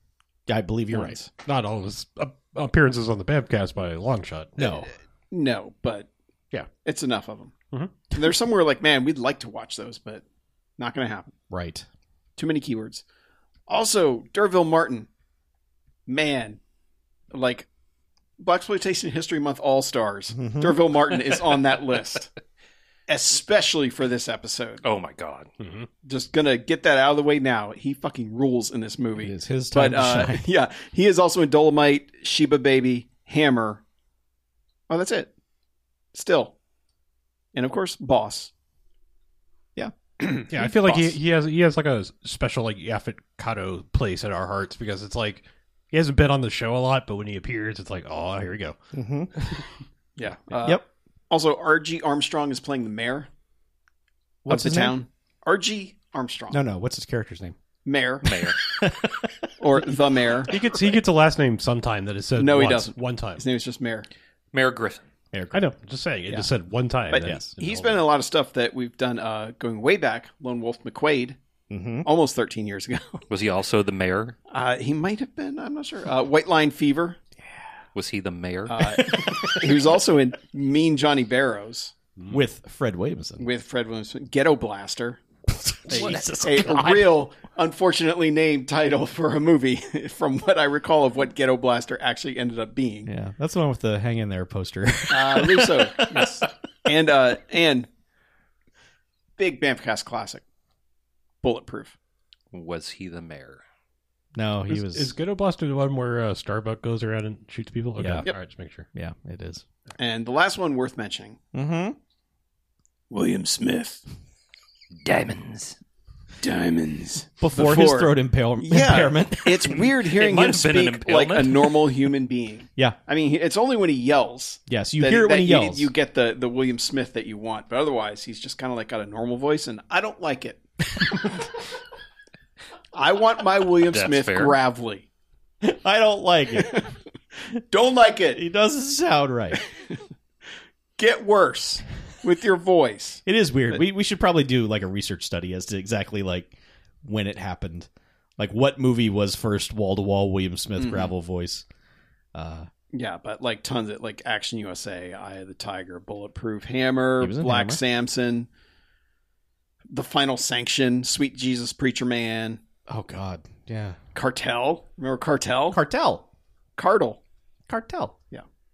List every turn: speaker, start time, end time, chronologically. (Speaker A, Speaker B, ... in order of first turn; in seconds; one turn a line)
Speaker A: 0.5-1.2
Speaker B: 0.9-1.3
Speaker C: 1.4-4.6
Speaker A: 4.6-4.9
Speaker B: 4.6-6.1
Speaker B: 6.8-7.5
Speaker C: 7.7-8.0
Speaker B: 8.1-10.2
Speaker B: 10.8-11.3
Speaker A: 11.5-11.8
Speaker B: 12.4-13.0
Speaker B: 13.7-15.1
Speaker B: 16.1-16.6
Speaker B: 17.3-17.7
Speaker B: 18.4-22.3
Speaker A: 20.3-20.8
Speaker B: 23.1-24.8
Speaker D: 24.8-25.5
Speaker C: 25.6-25.9
Speaker B: 26.0-33.8
Speaker A: 29.2-30.4
Speaker B: 34.9-35.3
Speaker B: 36.1-36.5
Speaker B: 37.5-38.5
Speaker B: 40.2-40.5
Speaker A: 40.5-41.1
Speaker C: 40.5-48.8
Speaker A: 48.9-49.3
Speaker C: 49.4-49.6
Speaker B: 50.2-53.3
Speaker A: 54.4-55.0
Speaker B: 54.5-56.6
Speaker A: 56.5-57.5
Speaker B: 57.8-58.3
Speaker D: 58.2-58.6
Speaker A: 58.5-59.9
Speaker B: 59.6-60.6
Speaker C: 60.5-63.4
Speaker A: 60.5-60.9
Speaker B: 62.4-64.1
Speaker D: 64.5-65.0
Speaker A: 65.3-65.7
Speaker C: 65.5-68.0
Speaker B: 67.1-71.4
Speaker A: 67.2-67.5
Speaker A: 71.7-72.1
Speaker B: 72.0-73.2
Speaker D: 73.3-74.3
Speaker B: 74.5-77.2
Speaker D: 77.9-78.9
Speaker B: 78.7-81.9
Speaker A: 82.3-83.5
Speaker B: 83.4-85.2
Speaker A: 85.5-87.2
Speaker B: 85.9-93.1
Speaker A: 93.1-96.5
Speaker B: 95.1-97.9
Speaker B: 99.4-100.4
Speaker B: 101.4-101.9
Speaker D: 102.5-103.6
Speaker A: 104.3-105.1
Speaker C: 104.7-108.8
Speaker A: 108.0-108.3
Speaker A: 108.9-109.6
Speaker B: 110.0-111.4
Speaker A: 111.5-112.0
Speaker B: 113.1-114.0
Speaker D: 115.0-115.8
Speaker B: 116.4-130.6
Speaker A: 117.4-119.9
Speaker D: 120.1-121.8
Speaker A: 124.7-125.9
Speaker B: 132.9-135.1
Speaker D: 133.9-134.6
Speaker A: 135.6-136.8
Speaker B: 136.6-136.9
Speaker B: 137.7-138.4
Speaker A: 138.3-139.6
Speaker B: 139.5-139.9
Speaker B: 141.0-143.8
Speaker A: 143.2-151.6
Speaker B: 150.8-151.1
Speaker A: 152.3-152.7
Speaker B: 152.9-158.5
Speaker A: 157.2-157.8
Speaker B: 159.9-162.6
Speaker A: 162.9-164.0
Speaker B: 164.1-165.8
Speaker A: 165.7-166.2
Speaker B: 166.8-167.2
Speaker A: 167.7-168.2